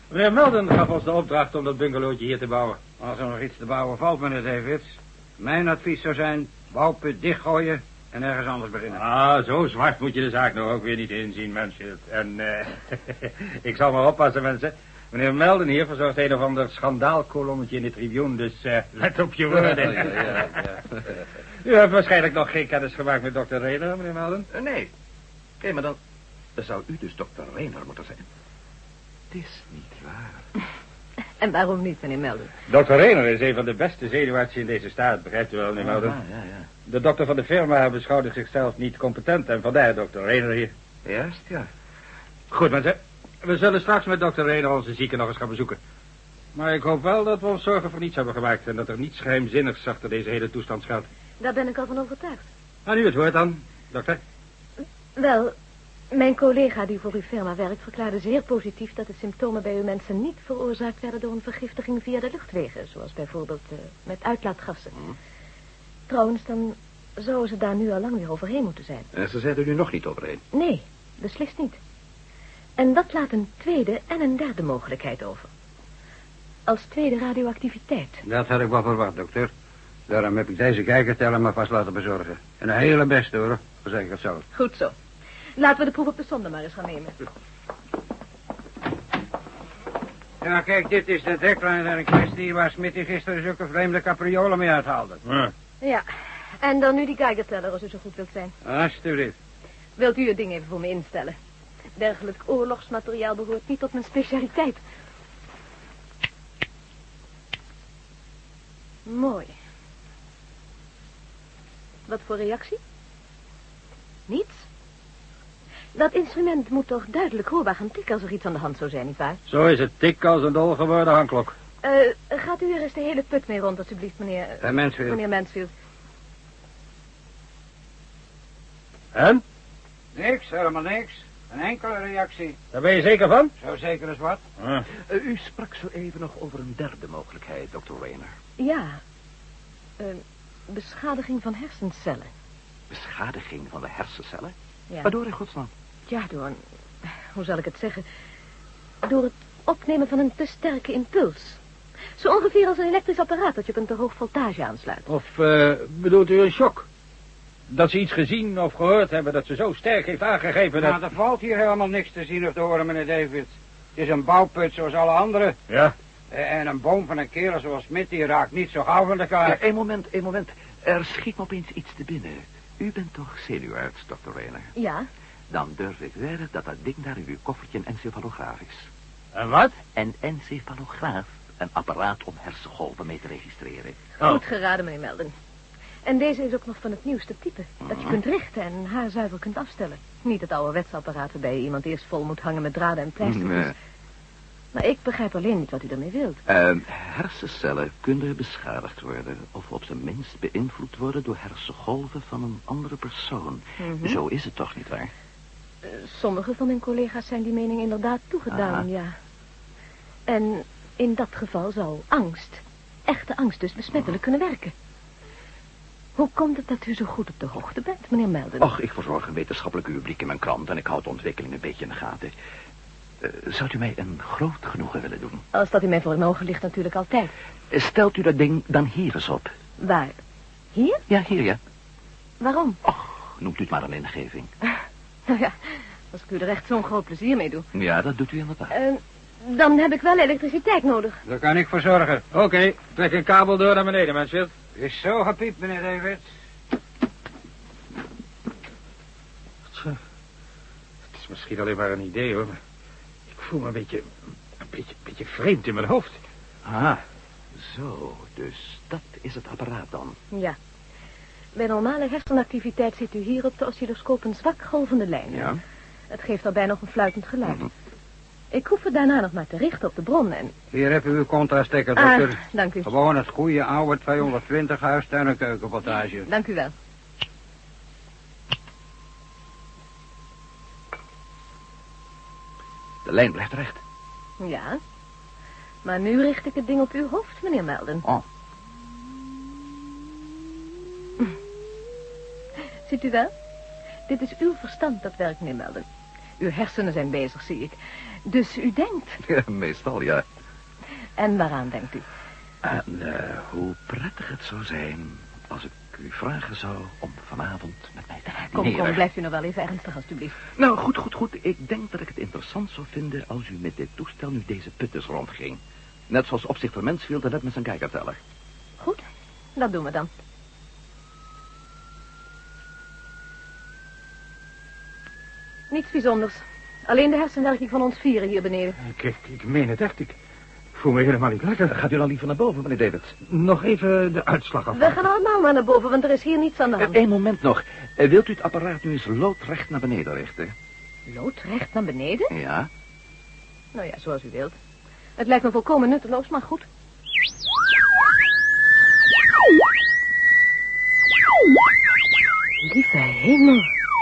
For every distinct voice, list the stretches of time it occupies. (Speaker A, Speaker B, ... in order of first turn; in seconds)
Speaker A: 0.1-2.8, 9.0-20.7, 21.6-24.5, 32.7-36.2, 36.9-40.7, 42.5-45.8, 46.5-51.1, 52.9-54.2, 119.5-121.5, 129.1-129.4, 132.7-133.5, 134.6-134.9, 155.1-156.8, 157.7-161.0, 179.3-179.8, 242.8-244.5, 249.7-250.0, 251.1-252.6, 253.3-254.1, 254.7-256.2, 328.8-330.2, 330.8-331.7, 333.3-334.8
Speaker B: 3.0-9.0, 78.3-79.5, 80.1-84.5, 90.4-95.2, 98.7-99.3, 124.6-125.2, 130.2-132.6, 133.6-134.4, 160.8-165.6, 166.3-169.6, 241.3-242.7, 244.8-246.2, 270.7-276.3
Speaker C: 24.5-24.9, 25.6-26.0, 26.6-28.2, 29.3-30.4, 35.8-36.7, 41.1-41.7, 69.1-70.4, 134.9-138.3, 142.9-145.7, 169.4-174.7, 175.5-178.9, 179.9-184.1, 187.8-188.2, 193.2-193.7, 196.5-205.1, 208.5-208.9, 218.6-222.3, 223.2-225.4, 227.7-229.5, 231.1-231.6, 232.9-234.5, 237.7-238.7, 256.6-257.0, 257.6-260.2, 265.3-265.6, 283.1-283.8, 299.2-300.2, 302.6-309.0, 310.6-318.2, 331.7-333.1, 336.8-340.5, 342.3-342.7
Speaker D: 31.4-32.5, 51.4-52.4, 55.2-55.5, 56.1-65.0, 66.1-69.1, 70.5-71.8, 72.8-75.5, 76.7-78.2, 84.5-84.9, 85.6-87.2, 96.6-98.5, 100.0-101.4, 102.0-104.8, 109.1-109.5, 112.1-112.8, 114.3-114.7, 116.0-119.4, 121.8-125.7, 138.6-139.0, 140.0-142.3, 146.1-146.6, 147.3-148.1, 149.0-151.6, 152.2-155.1, 174.8-175.1, 184.2-185.3, 186.1-193.7, 194.7-196.4, 203.8-204.2, 205.8-209.1, 210.3-214.7, 216.2-218.7, 225.5-227.3, 229.8-230.2, 230.7-231.0, 232.4-232.8, 235.3-237.7, 238.7-241.2, 261.6-265.6, 266.1-267.7, 268.5-270.5, 271.9-272.9, 276.2-276.7, 284.4-284.8, 285.8-288.1, 292.9-293.3, 294.1-295.9, 296.4-299.2, 301.2-302.1, 308.5-310.4, 319.6-320.1, 325.7-328.8, 334.7-337.0, 341.1-342.3, 343.7-344.6, 345.2-346.7, 352.6-353.7